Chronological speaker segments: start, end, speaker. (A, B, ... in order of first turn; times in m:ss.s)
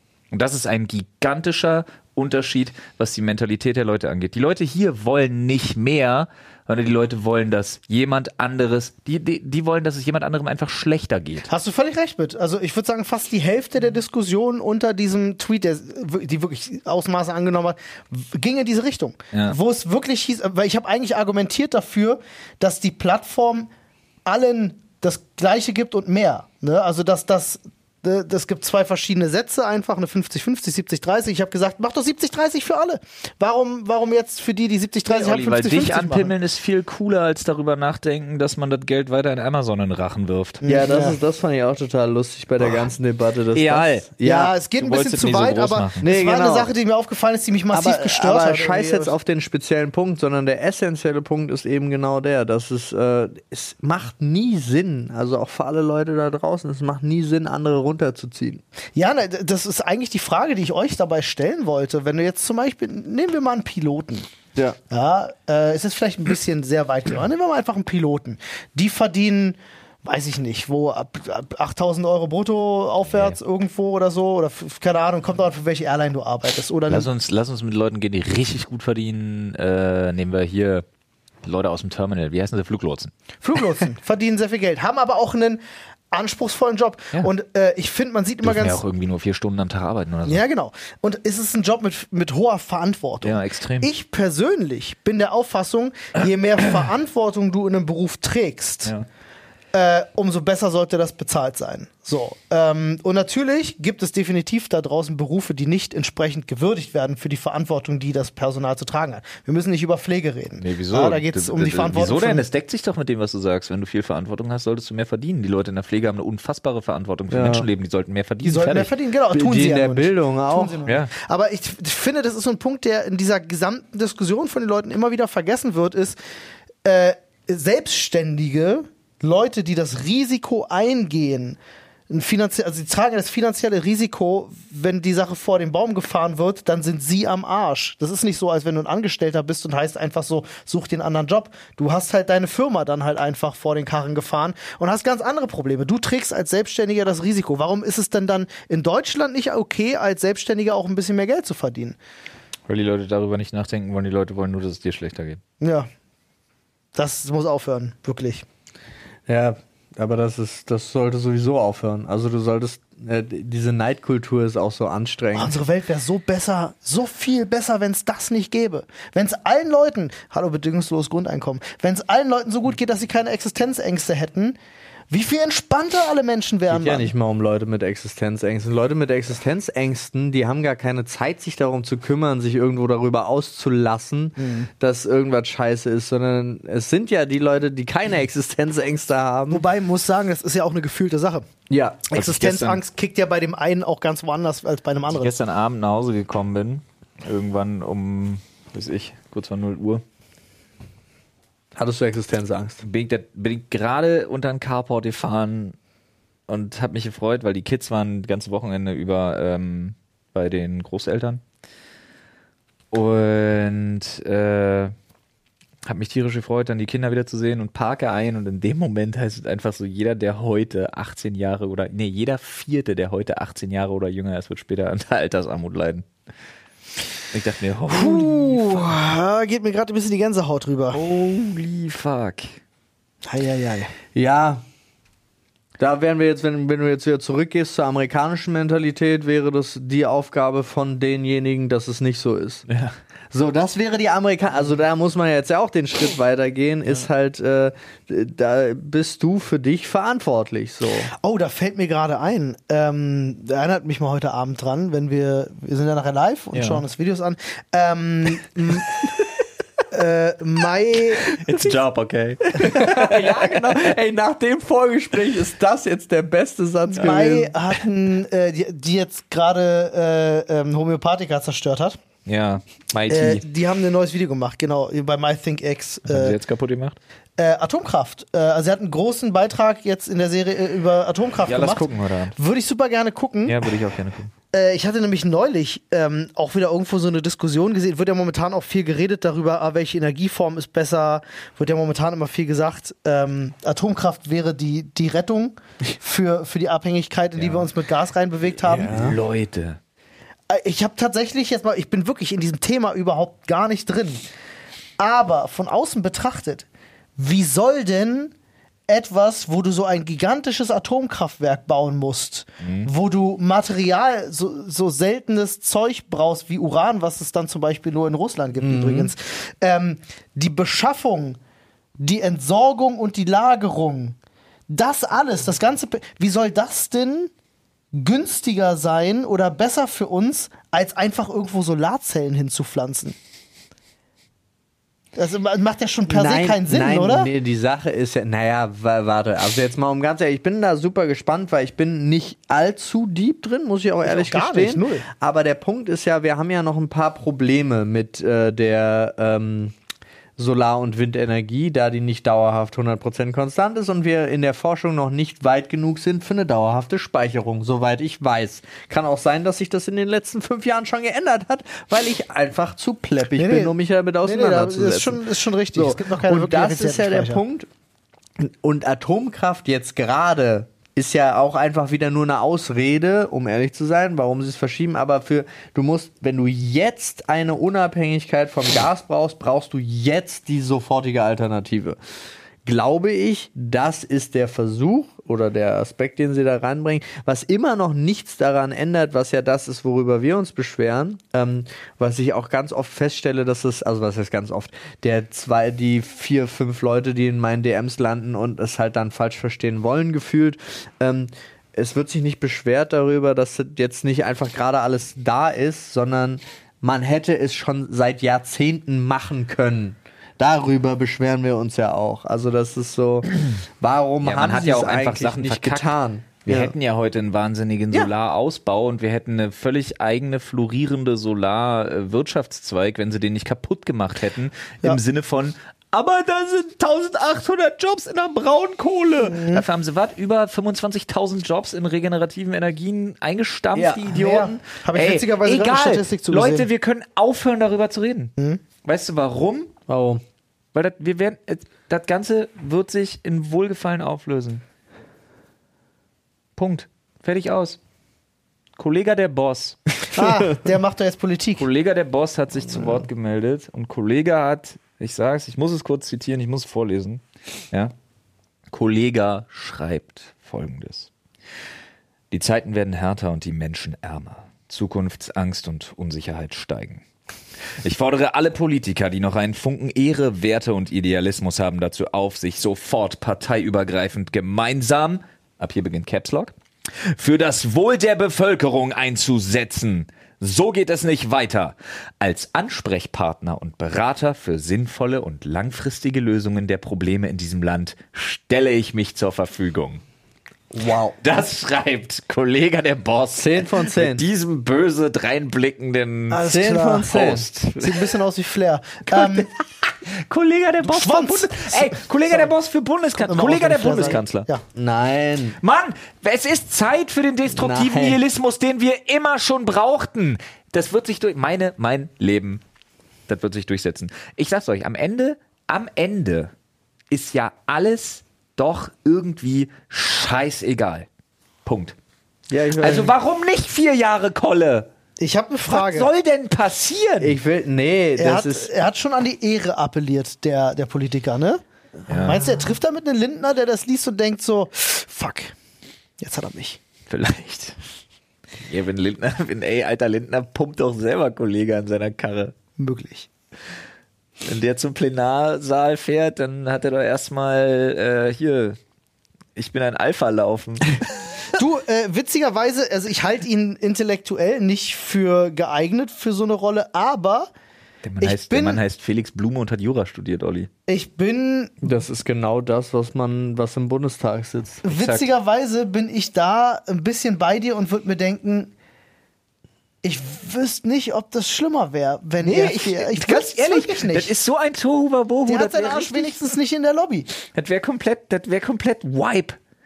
0:00.3-0:11.5 A
0:11.5-0:23.7 B
0:24.2-0:36.3 B
0:35.1-0:40.6 A
0:40.6-0:41.2 B
0:40.6-0:44.5 C
0:43.5-0:44.1 A
0:44.2-0:49.1 B
0:44.8-0:46.0 A
0:46.0-0:46.7 C
0:47.7-0:58.6 C
0:58.9-1:04.3 B
1:04.9-1:17.1 B
1:13.1-1:13.4 A
1:16.9-1:20.8 A
1:21.4-1:23.1 A
1:23.4-1:28.8 B
1:28.4-1:30.4 A
1:30.2-1:38.9 B
1:33.2-1:33.9 A
1:39.7-1:52.4 B
1:50.6-1:58.9 A
1:57.3-1:57.6 C
1:58.4-2:06.2 B
1:59.3-2:00.8 C
2:00.8-2:01.1 A
2:06.8-2:32.0 B
2:32.7-2:35.4 A
2:35.6-2:35.9 B
2:36.9-2:38.4 B
2:39.3-2:45.5 C
2:45.3-2:54.6 B
2:55.1-2:57.1 B
2:56.7-3:09.6 C
3:04.4-3:04.7 B
3:09.5-3:11.4 B
3:11.7-3:12.1 C
3:12.1-3:15.3 B
3:12.1-3:12.8 A
3:15.1-3:20.0 A
3:21.8-3:22.8 C
3:22.8-3:25.7 A
3:26.5-3:31.4 A
3:32.9-3:34.9 A
3:35.8-3:46.0 A
3:47.3-3:49.0 A
3:47.9-3:51.0 B
3:50.9-3:52.6 A
3:53.2-3:53.9 B
3:54.1-3:54.6 C
3:55.8-4:02.6 C
4:02.7-4:02.9 A
4:03.3-4:11.1 C
4:11.1-4:19.1 B
4:16.5-4:16.8 A
4:19.9-4:21.3 B
4:21.3-4:23.9 A
4:22.5-4:27.5 C
4:26.9-4:32.0 B
4:32.2-4:33.4 A
4:33.1-4:36.4 B
4:36.1-4:37.0 A
4:37.4-4:43.6 B
4:41.4-4:42.4 A
4:43.4-4:44.3 A
4:44.5-4:59.2 B
4:57.4-4:57.7 A
4:58.6-4:59.8 A
4:58.8-4:59.2 C
5:00.5-5:04.2 B
5:05.0-5:06.6 B
5:07.2-5:08.3 B
5:08.9-5:21.4 B
5:12.6-5:12.9 A
5:18.6-5:19.1 C
5:22.0-5:24.2 B
5:24.7-5:27.3 B
5:27.9-5:33.2 B
5:35.1-5:37.3 B
5:36.1-5:49.7 C
5:44.0-5:45.0 B
5:50.4-6:05.2 C
6:03.4-6:07.4 B
6:05.7-6:07.7 C
6:08.4-6:22.0 C
6:22.6-6:56.7 C
6:54.2-6:55.9 A
6:56.4-7:18.3 A
7:09.2-7:09.6 B
7:13.7-7:14.1 C
7:14.1-7:16.7 B
7:18.8-7:19.7 A
7:19.9-7:20.2 C
7:20.7-7:24.6 A
7:26.6-7:27.8 A
7:28.8-7:29.8 A
7:30.1-7:31.7 B
7:30.2-7:30.6 C
7:31.6-7:37.9 A
7:38.7-7:41.1 A
7:42.3-7:47.0 A
7:47.8-7:56.5 A
7:57.0-8:10.0 A
8:10.7-8:11.2 C
8:11.2-8:16.5 A
8:13.4-8:14.2 C
8:16.3-8:17.1 B
8:16.4-8:17.5 C
8:17.0-8:18.1 A
8:17.8-8:19.5 B
8:19.1-8:24.5 A
8:20.8-8:22.5 B
8:23.1-8:24.6 B
8:24.7-8:25.6 C
8:25.6-8:32.6 A
8:27.5-8:28.2 C
8:33.3-8:36.5 A
8:37.1-8:41.1 A
8:41.6-8:41.9 A
8:42.5-8:43.1 C
8:42.8-8:44.9 A
8:45.2-8:46.1 B
8:45.7-8:47.4 A
8:47.2-8:48.7 C
8:48.2-8:55.5 B
8:52.1-8:52.4 A
8:56.2-8:56.8 B
8:57.1-8:57.8 A
8:58.6-9:02.5 A
9:02.8-9:03.3 B
9:04.4-9:08.8 A
9:09.6-9:11.3 A
9:11.5-9:17.5 B
9:18.0-9:20.7 A
9:18.2-9:18.8 B
9:20.9-9:21.8 B
9:21.8-9:24.8 C
9:24.8-9:28.7 B
9:24.9-9:25.2 A
9:30.0-9:34.3 B
9:32.4-9:36.4 A
9:35.4-9:37.3 B
9:37.5-9:39.6 A